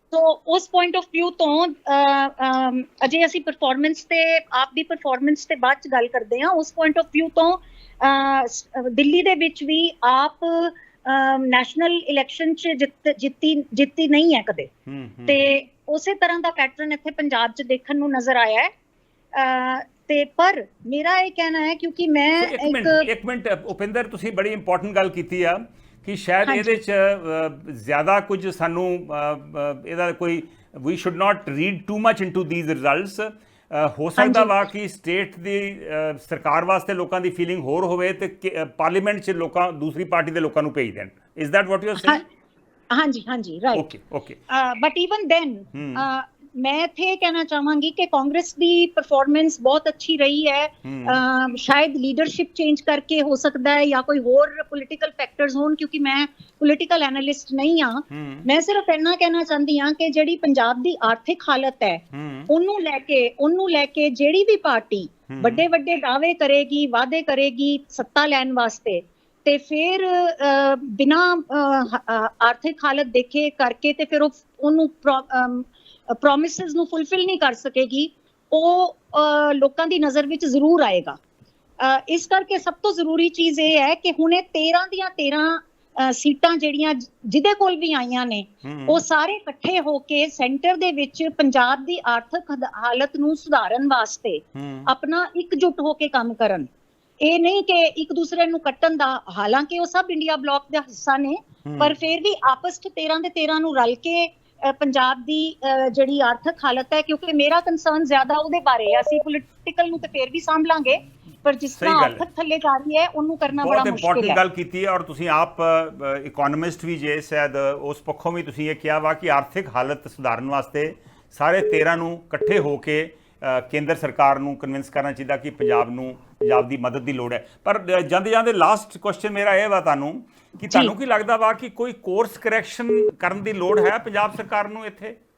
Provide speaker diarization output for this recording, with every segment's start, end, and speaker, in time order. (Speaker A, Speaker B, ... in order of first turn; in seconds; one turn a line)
Speaker A: 0.1-14.7
Speaker B: 14.9-15.4
Speaker A: 15.3-18.7
Speaker A: 19.3-23.1
Speaker B: 22.4-42.2
Speaker A: 26.4-26.7
Speaker A: 34.2-34.5
Speaker A: 42.0-42.2
Speaker A: 42.9-43.9
Speaker B: 43.7-44.4
Speaker A: 44.5-81.2
Speaker B: 45.7-46.0
Speaker B: 50.8-51.2
Speaker B: 58.1-58.5
Speaker B: 62.1-62.5
Speaker B: 65.3-65.6
Speaker A: 81.8-96.7
Speaker B: 88.6-89.0
Speaker B: 94.5-94.9
Speaker A: 97.2-114.4
Speaker B: 101.6-101.9
Speaker B: 111.8-112.2
Speaker B: 113.6-135.2